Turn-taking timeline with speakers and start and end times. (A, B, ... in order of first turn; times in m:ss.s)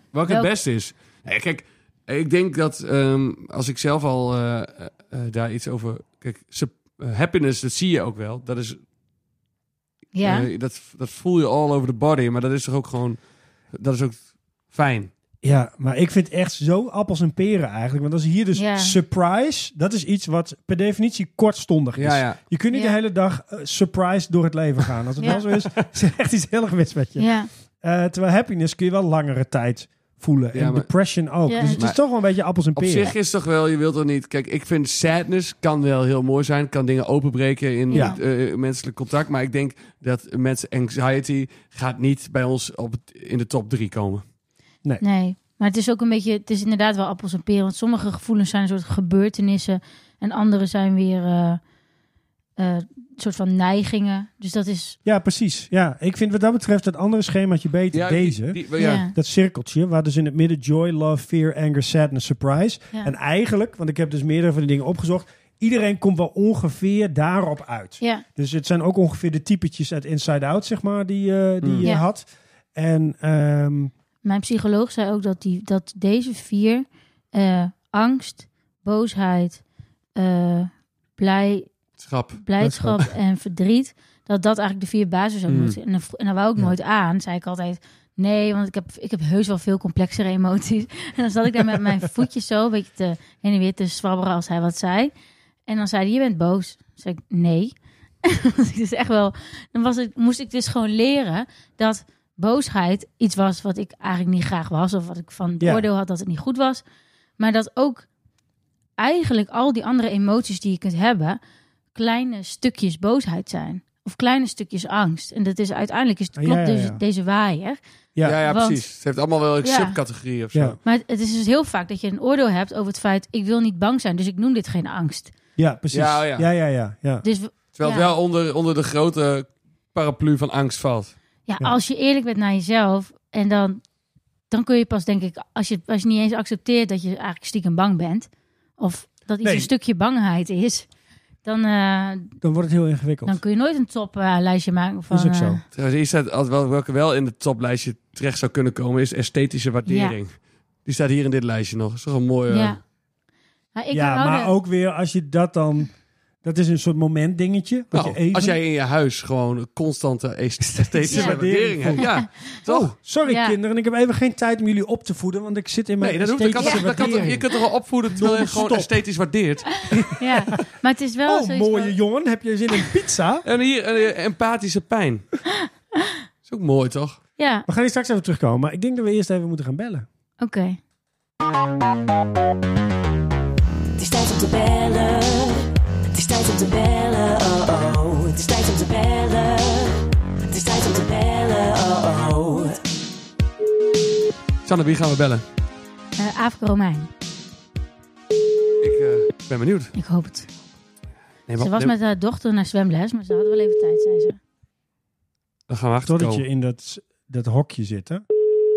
0:00.1-0:08.8 A
0:00.2-0:00.5 B
0:10.1-0:10.5 B
0:10.2-0:13.2 A
0:13.7-0:15.1 A
0:15.4-0:33.1 C
0:18.5-0:19.0 B
0:22.0-0:22.4 A
0:25.6-0:25.8 A
0:27.2-0:27.5 B
0:30.5-0:30.9 A
0:31.5-0:31.8 B
0:31.6-0:32.0 A
0:32.7-0:44.2 A
0:37.9-0:38.2 B
0:37.9-0:38.2 C
0:45.0-0:51.6 B
0:52.6-0:55.0 B
0:55.0-1:13.9 C
0:57.9-0:59.0 A
0:58.8-0:59.1 B
1:11.6-1:11.9 A
1:14.2-1:19.6 B
1:20.2-1:21.7 B
1:22.0-1:22.4 A
1:22.4-1:35.1 B
1:22.6-1:23.0 C
1:25.5-1:25.8 A
1:35.7-1:46.8 B
1:45.6-1:45.8 C
1:47.4-1:48.1 B
1:49.0-1:51.4 B
1:51.9-1:57.8 B
1:56.4-1:57.0 C
1:58.2-2:00.8 A
1:58.4-1:58.8 B
1:59.6-2:00.0 B
2:00.5-2:00.8 C
2:00.8-2:05.3 B
2:05.6-2:07.2 C
2:05.9-2:06.5 A
2:07.2-2:08.1 B
2:07.7-2:11.1 A
2:11.5-2:13.8 B
2:14.5-2:20.9 B
2:19.4-2:19.7 C
2:21.4-2:22.4 B
2:22.4-2:23.4 C
2:23.2-2:25.6 B
2:25.1-2:25.6 C
2:25.7-2:32.8 A
2:29.9-2:30.2 B
2:32.5-2:32.8 B
2:33.7-2:34.5 B
2:33.9-2:38.6 C
2:37.9-2:42.9 A
2:40.8-2:47.4 C
2:41.1-2:41.4 B
2:42.0-2:42.2 B
2:43.2-2:43.6 B
2:46.0-2:49.8 A
2:46.6-2:46.8 B
2:48.1-2:48.9 C
2:49.8-2:51.9 B
2:49.9-2:50.6 C
2:51.2-2:53.4 C
2:53.4-2:55.3 A
2:56.4-2:57.2 A
2:57.4-2:57.6 B
2:57.7-3:00.0 C
3:00.4-3:00.8 B
3:04.0-3:12.8 D
3:14.6-3:15.4 A
3:16.2-3:17.1 B
3:18.8-3:19.9 A
3:19.9-3:20.5 B
3:21.5-3:21.9 A
3:21.6-3:24.4 B
3:25.7-3:26.4 A
3:26.0-3:28.2 C